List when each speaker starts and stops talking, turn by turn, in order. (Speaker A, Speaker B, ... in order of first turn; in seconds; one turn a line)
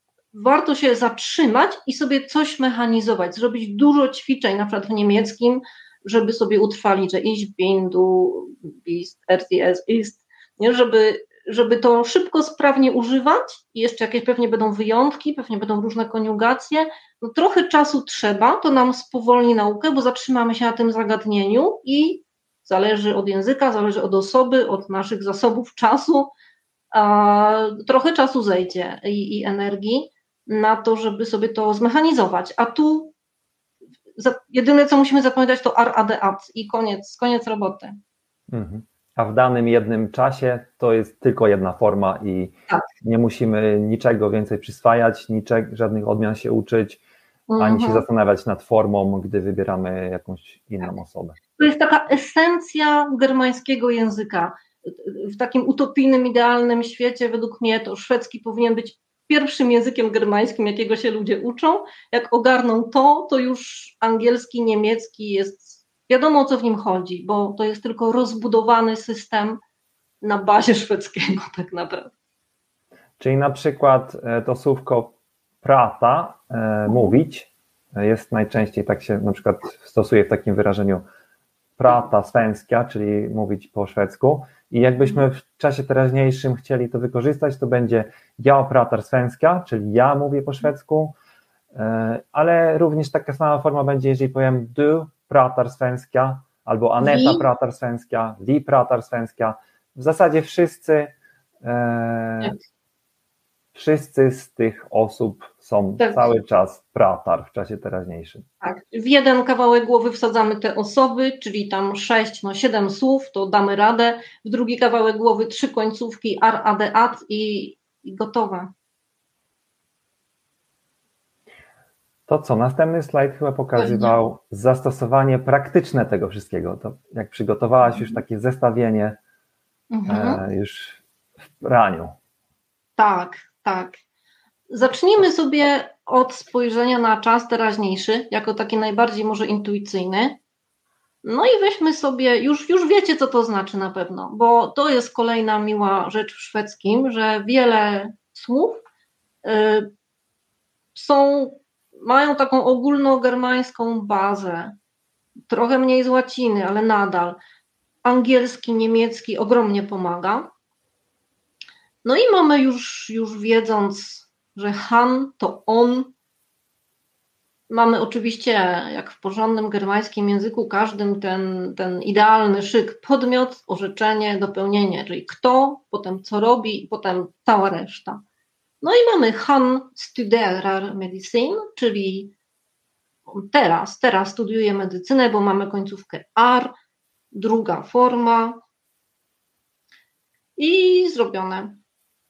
Speaker A: 0.3-26.3
Speaker A: 26.9-33.1
Speaker A: 34.2-38.0
Speaker B: 38.5-47.0
Speaker A: 47.5-48.0
Speaker B: 47.6-51.4
Speaker A: 51.6-69.6
Speaker A: 70.2-72.1
Speaker B: 73.2-81.0
Speaker B: 81.8-91.1
Speaker B: 91.8-102.5
Speaker A: 97.0-97.5
Speaker B: 103.8-108.5
Speaker A: 106.0-106.3
Speaker A: 108.6-118.7
Speaker B: 122.3-129.2
Speaker A: 123.8-124.2
Speaker A: 129.9-130.4
Speaker B: 130.1-131.0
Speaker B: 131.6-132.2
Speaker A: 133.0-134.0
Speaker A: 134.7-140.4
Speaker A: 141.2-148.8
Speaker A: 149.4-149.9
Speaker A: 150.9-154.8
Speaker A: 155.5-157.4
Speaker A: 158.0-160.5
Speaker A: 162.1-166.1
Speaker A: 167.7-178.2
Speaker A: 178.8-182.3
Speaker A: 183.3-186.7
Speaker A: 187.3-188.6
Speaker A: 190.6-191.8